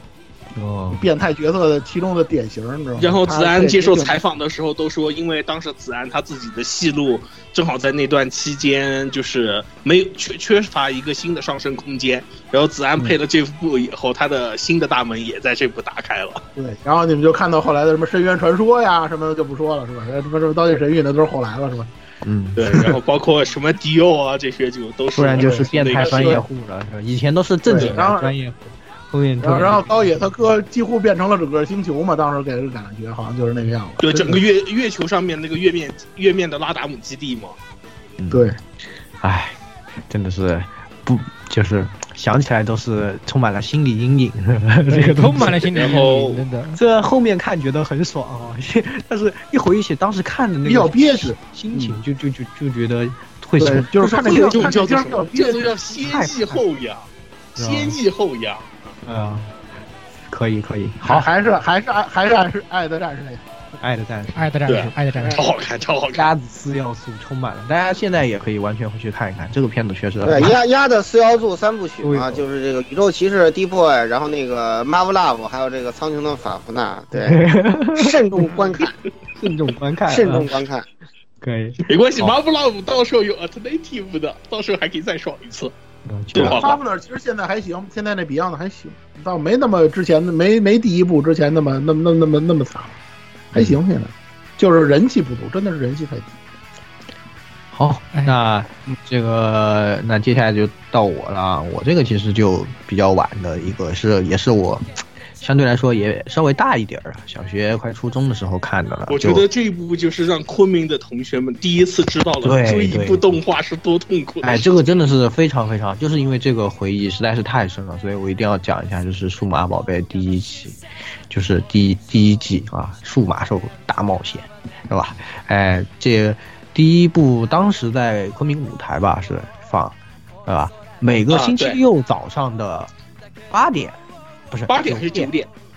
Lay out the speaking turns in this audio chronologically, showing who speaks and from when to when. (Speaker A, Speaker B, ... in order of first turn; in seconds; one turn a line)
Speaker A: 0.6-1.0
Speaker B: 0.9-4.2
Speaker C: 3.0-16.4
Speaker B: 16.6-21.9
Speaker A: 22.2-22.9
Speaker C: 22.6-26.4
Speaker A: 25.1-30.2
Speaker B: 25.4-26.4
Speaker B: 27.6-28.3
Speaker C: 27.7-28.1
Speaker B: 29.4-34.4
Speaker C: 34.0-37.5
Speaker A: 38.2-38.5
Speaker A: 39.2-39.6
Speaker A: 40.1-45.6
Speaker D: 44.9-46.8
Speaker C: 45.4-46.4
Speaker A: 46.7-54.6
Speaker B: 50.6-52.0
Speaker B: 53.6-55.7
Speaker C: 54.0-58.9
Speaker A: 56.0-56.6
Speaker A: 57.6-58.0
Speaker A: 59.0-59.5
Speaker A: 60.3-61.3
Speaker B: 61.0-63.4
Speaker A: 63.8-64.4
Speaker D: 64.3-65.4
Speaker C: 64.7-66.3
Speaker A: 66.1-70.5
Speaker E: 70.2-77.4
Speaker A: 72.0-72.4
Speaker A: 77.1-78.5
Speaker E: 77.9-79.0
Speaker A: 79.4-80.5
Speaker E: 80.1-80.9
Speaker A: 81.4-82.3
Speaker C: 81.8-85.7
Speaker A: 86.0-86.7
Speaker C: 86.3-86.8
Speaker B: 86.4-92.9
Speaker B: 93.5-96.4
Speaker A: 97.7-104.8
Speaker A: 105.4-109.4
Speaker C: 109.1-114.7
Speaker A: 112.4-113.3
Speaker A: 114.4-120.8
Speaker A: 121.3-132.9
Speaker C: 131.3-131.8
Speaker A: 133.5-134.0
Speaker A: 134.5-135.3
Speaker C: 134.7-135.5